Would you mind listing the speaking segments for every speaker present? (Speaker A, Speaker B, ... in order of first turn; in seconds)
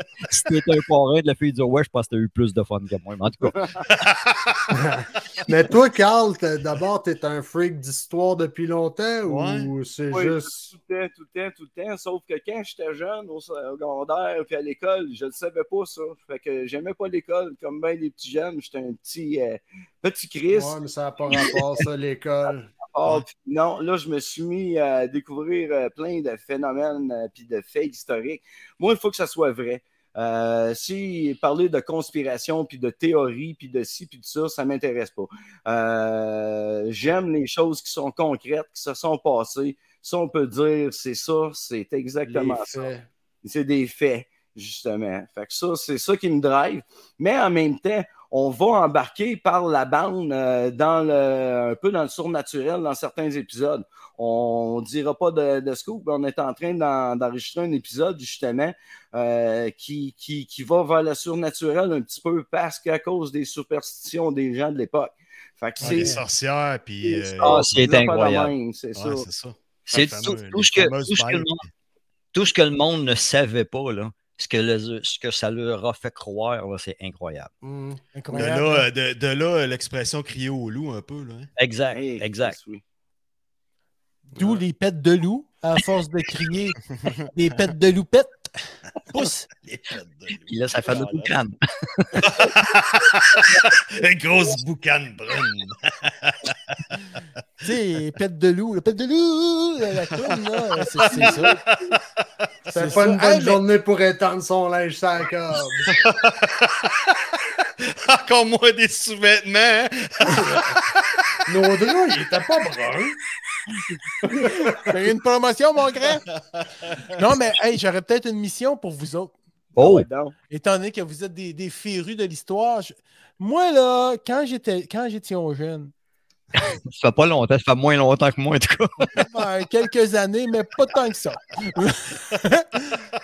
Speaker A: 0.3-3.6, 67.4-68.5, 69.9-71.6, 72.3-77.5, 81.6-82.6, 90.5-92.3, 119.8-120.1, 126.6-129.3
Speaker B: 3.9-4.7, 9.3-9.7, 65.8-67.9, 69.0-71.5, 78.3-81.5, 89.6-91.3, 92.2-96.6, 101.0-102.0, 105.9-111.2, 116.3-117.1
Speaker C: 4.7-10.7, 20.5-22.7, 42.3-43.1, 77.6-78.0, 102.7-106.0, 110.3-110.7, 111.5-113.2, 114.2-114.8
Speaker D: 10.1-20.8, 21.3-21.6, 22.9-42.9, 43.4-66.2, 67.0-69.2, 81.9-82.8, 119.8-120.3
Speaker E: 65.8-66.2, 78.2-78.9, 84.3-86.8, 87.3-88.5, 89.1-89.5, 97.6-101.6, 102.7-103.6, 114.5-116.2, 117.2-119.3, 120.5-125.9, 129.2-133.0